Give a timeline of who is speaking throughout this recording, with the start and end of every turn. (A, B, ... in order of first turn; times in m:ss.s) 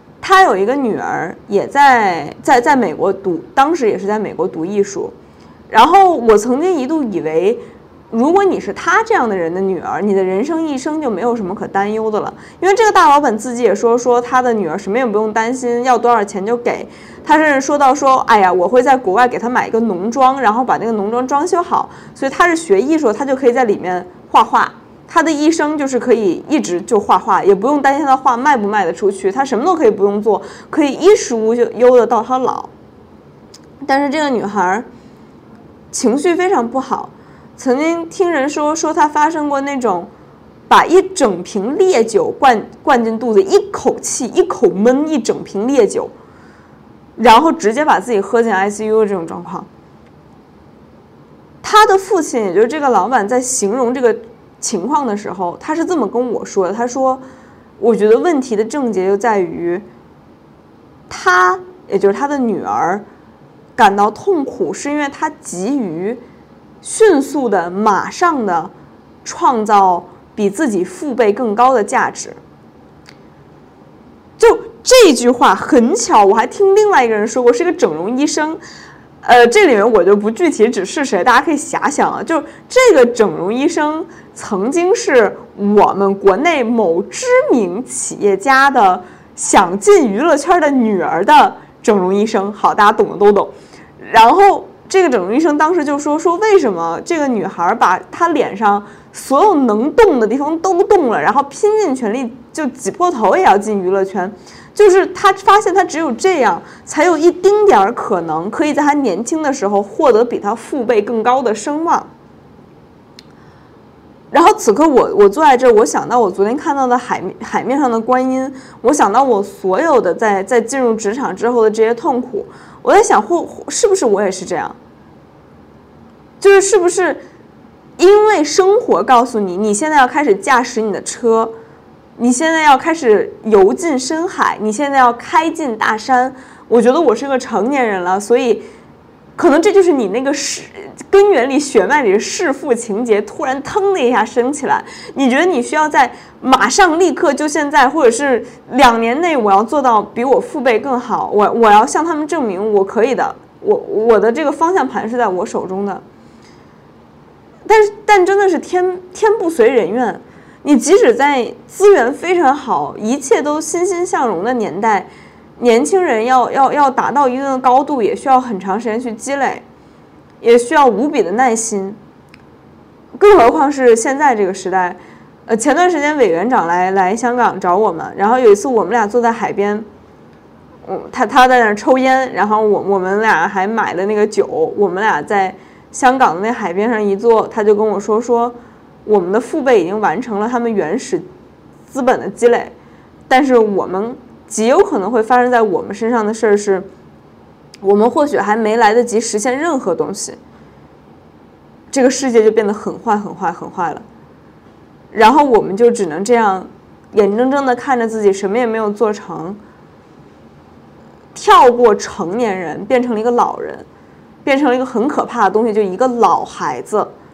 0:00.2-0:05.1 A
0:05.7-0:32.7 A
0:33.8-0:34.9 A
0:35.9-0:40.1 A
0:40.7-0:46.1 A
0:47.2-0:49.7 A
0:51.6-0:57.2 A
0:57.8-0:59.9 A
1:01.1-1:03.0 A
1:03.8-1:06.2 A
1:06.8-1:08.7 A
1:09.2-1:12.4 A
1:14.4-1:18.6 A
1:19.2-1:52.1 A
1:54.3-2:04.8 A
2:06.4-2:07.2 A
2:08.0-2:11.5 A
2:12.2-2:18.6 A
2:19.4-2:36.0 A
2:37.7-2:49.6 A
2:50.4-2:52.0 A
2:53.2-2:59.9 A
3:00.9-3:11.3 A
3:11.9-3:12.7 A
3:13.3-3:16.9 A
3:17.8-3:20.4 A
3:21.9-3:24.0 A
3:25.1-3:29.6 A
3:31.3-3:33.9 A
3:34.4-3:37.1 A